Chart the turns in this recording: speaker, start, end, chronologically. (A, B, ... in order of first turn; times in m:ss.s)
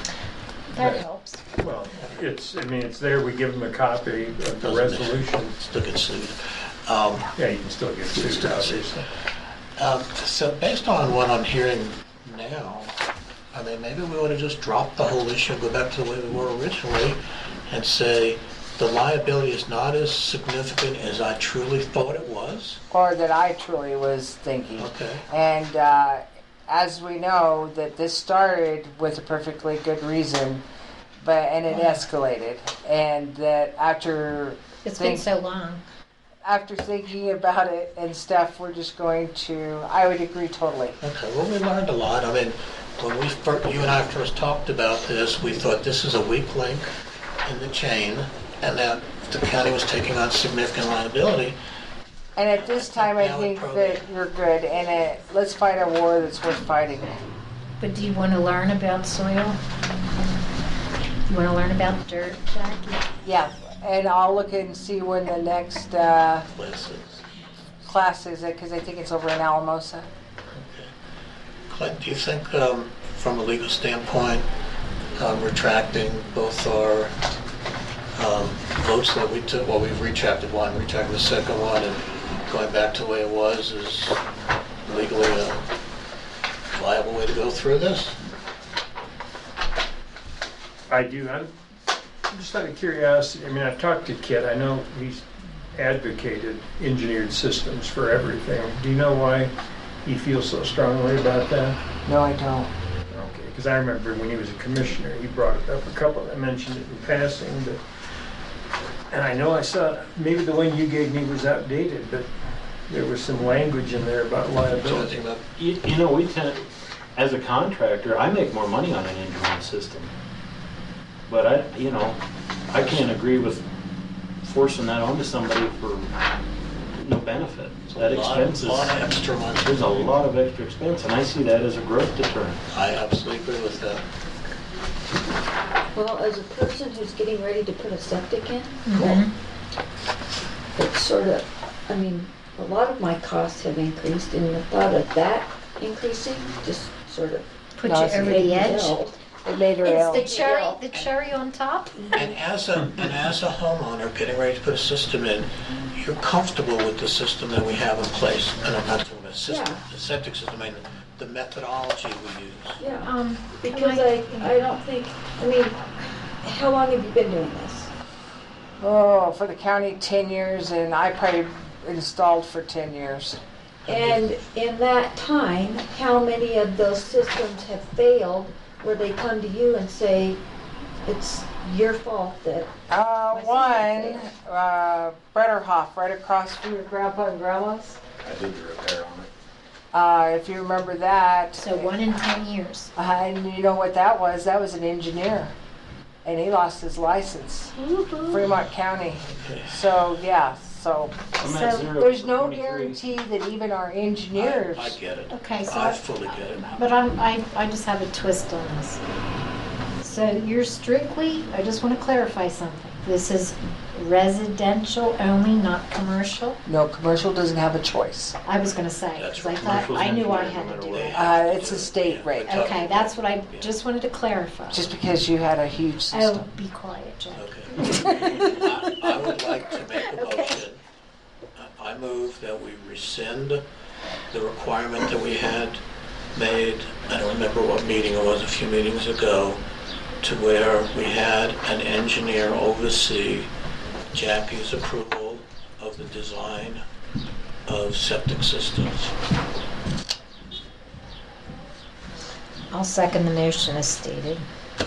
0:00.7-0:01.4 A
0:00.8-0:01.0 B
0:01.6-0:05.6 B
0:04.6-0:07.3 C
0:07.4-0:09.0 B
0:08.1-0:09.1 C
0:09.8-0:13.0 C
0:13.5-0:22.8 C
0:22.9-0:30.6 D
0:24.8-0:25.2 C
0:31.2-0:35.3 D
0:34.8-0:35.8 A
0:36.4-0:41.0 D
0:41.0-0:46.9 C
0:47.4-0:51.6 C
0:52.4-0:57.2 D
0:52.6-0:54.0 C
0:57.8-0:59.6 A
1:01.3-1:03.0 A
1:03.2-1:06.5 D
1:06.6-1:07.2 C
1:07.8-1:10.1 D
1:10.5-1:10.9 C
1:11.7-1:14.5 C
1:15.2-1:17.1 C
1:18.2-1:24.2 C
1:24.9-1:25.6 C
1:26.7-1:28.2 C
1:30.9-1:31.5 B
1:32.3-1:39.5 B
1:40.0-1:41.8 B
1:42.1-1:42.7 D
1:43.1-1:47.8 B
1:49.1-1:52.3 B
1:52.9-1:55.2 B
1:54.7-1:55.4 C
1:55.6-2:00.1 E
2:01.3-2:03.6 E
2:02.8-2:03.1 C
2:04.4-2:06.1 E
2:07.0-2:09.0 E
2:07.9-2:10.1 C
2:09.6-2:12.6 E
2:12.7-2:14.0 C
2:16.0-2:19.2 F
2:18.9-2:19.3 A
2:20.7-2:27.5 F
2:27.8-2:29.0 A
2:27.8-2:28.6 D
2:28.3-2:29.2 F
2:29.3-2:30.8 D
2:29.8-2:32.4 A
2:32.1-2:42.8 C
2:39.5-2:39.8 F
2:42.8-2:47.9 F
2:43.0-2:44.5 A
2:48.8-2:53.4 D
2:53.9-2:54.3 C
2:53.9-3:00.4 F
3:01.0-3:02.7 F
3:02.9-3:08.0 D
3:03.3-3:04.2 A
3:08.2-3:09.3 E
3:09.9-3:12.0 D
3:11.6-3:12.9 A
3:13.0-3:15.5 D
3:16.2-3:17.7 D
3:17.8-3:18.5 A
3:18.3-3:21.3 D
3:19.3-3:19.9 C
3:21.4-3:23.1 E
3:21.4-3:21.9 A
3:21.9-3:25.0 D
3:24.4-3:26.8 C
3:25.3-3:29.0 A
3:30.0-3:36.6 A
3:36.7-3:38.4 D
3:38.4-3:41.1 A
3:39.2-3:43.7 C
3:39.6-3:41.4 E
3:41.1-3:42.6 D
3:42.4-3:44.9 A
3:44.7-3:46.5 D
3:46.1-3:49.2 A
3:47.3-3:50.8 C
3:49.9-3:50.6 A
3:51.6-3:53.6 C
3:54.3-3:55.8 C
3:56.4-3:59.6 C
4:00.2-4:03.5 C
4:04.1-4:06.8 C
4:07.7-4:09.1 C
4:12.7-4:14.4 A